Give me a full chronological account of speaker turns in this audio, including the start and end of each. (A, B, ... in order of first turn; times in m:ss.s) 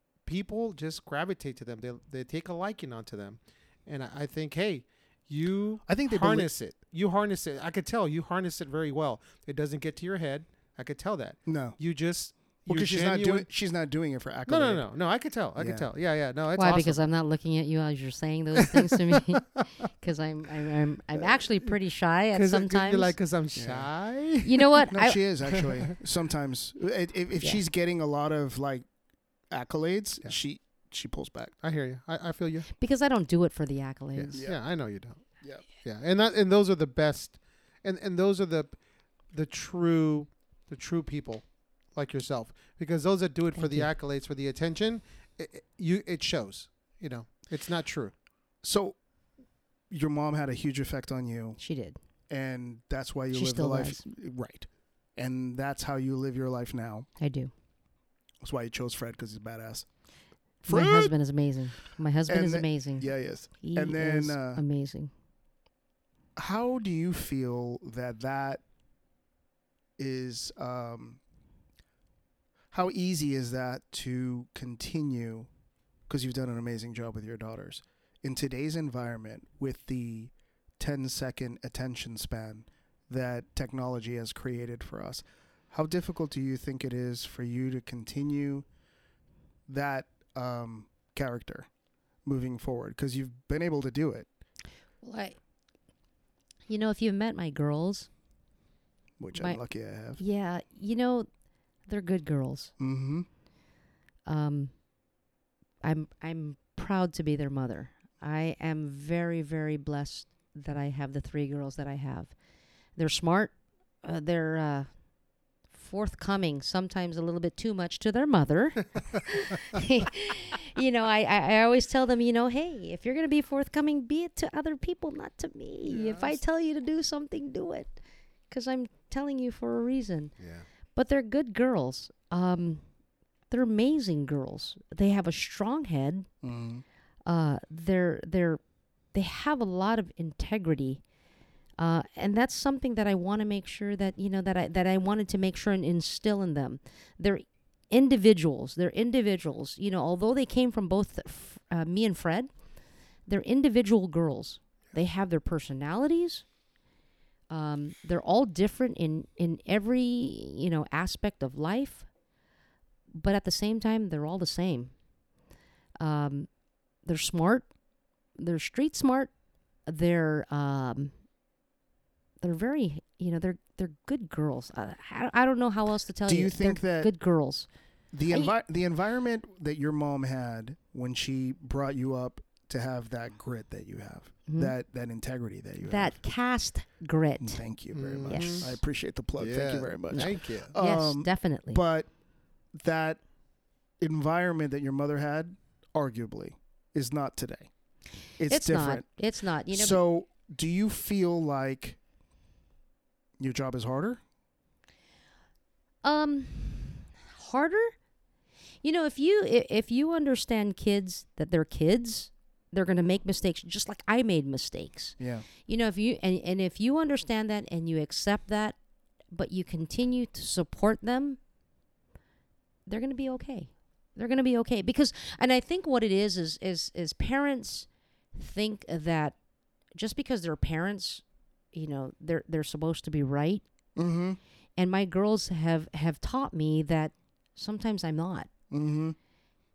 0:00.2-0:13.5 A
0:05.9-0:06.5 B
0:11.4-0:11.8 B
0:12.7-0:14.9 B
0:14.5-0:17.0 A
0:15.6-0:15.9 B
0:16.6-0:23.1 C
0:18.6-0:19.6 A
0:22.3-0:24.7 A
0:23.5-0:23.9 B
0:24.4-0:25.2 C
0:24.9-0:28.8 B
0:25.5-0:25.9 A
0:29.5-0:31.5 B
0:31.6-0:32.7 A
0:32.8-0:34.4 C
0:34.1-0:48.1 A
0:34.3-0:34.6 B
0:43.5-0:43.9 C
0:48.6-0:49.0 B
0:49.9-0:51.6 B
0:51.6-0:52.0 C
0:52.3-0:57.1 B
0:53.3-0:54.0 C
0:57.2-0:57.5 C
0:58.4-0:59.9 B
1:00.6-1:01.1 B
1:00.7-1:03.1 C
1:02.3-1:04.6 B
1:03.6-1:05.1 C
1:06.4-1:08.6 B
1:10.0-1:11.2 B
1:12.7-1:15.5 B
1:16.1-1:28.6 B
1:29.7-1:31.7 B
1:32.2-1:34.3 B
1:35.0-1:35.4 C
1:36.7-1:38.1 C
1:39.2-1:40.2 B
1:39.3-1:39.6 C
1:40.2-1:41.3 C
1:41.9-1:42.7 C
1:42.8-1:43.3 B
1:44.2-1:44.7 C
1:45.8-1:52.3 C
1:53.0-1:54.9 C
1:55.7-2:08.0 C
2:05.9-2:06.4 A
2:08.5-2:10.3 C
2:10.4-2:10.6 A
2:10.9-2:12.8 C
2:13.5-2:16.3 C
2:16.4-2:16.8 B
2:17.2-2:18.6 C
2:19.1-2:21.0 C
2:21.8-2:32.5 C
2:33.3-2:36.4 C
2:37.5-2:42.1 C
2:43.1-2:44.9 C
2:46.0-2:46.5 C
2:47.0-2:47.7 C
2:48.4-2:49.3 C
2:49.9-2:51.1 C
2:52.4-2:57.7 C
2:56.2-2:57.1 B
2:58.1-3:06.2 B
3:04.5-3:04.7 C
3:05.8-3:07.6 C
3:07.4-3:12.1 B
3:07.9-3:08.8 A
3:08.2-3:08.8 C
3:09.4-3:10.7 A
3:10.1-3:11.8 C
3:12.7-3:13.2 B
3:14.0-3:17.7 B
3:18.4-3:19.0 B
3:18.5-3:20.0 C
3:19.7-3:22.0 B
3:23.4-3:24.2 B
3:26.0-3:27.9 C
3:28.8-3:38.8 C
3:35.2-3:35.5 B
3:39.3-3:41.4 C
3:42.9-3:49.4 C
3:50.0-3:53.6 C
3:54.0-3:54.4 B
3:54.8-3:58.5 C
3:58.7-3:59.2 B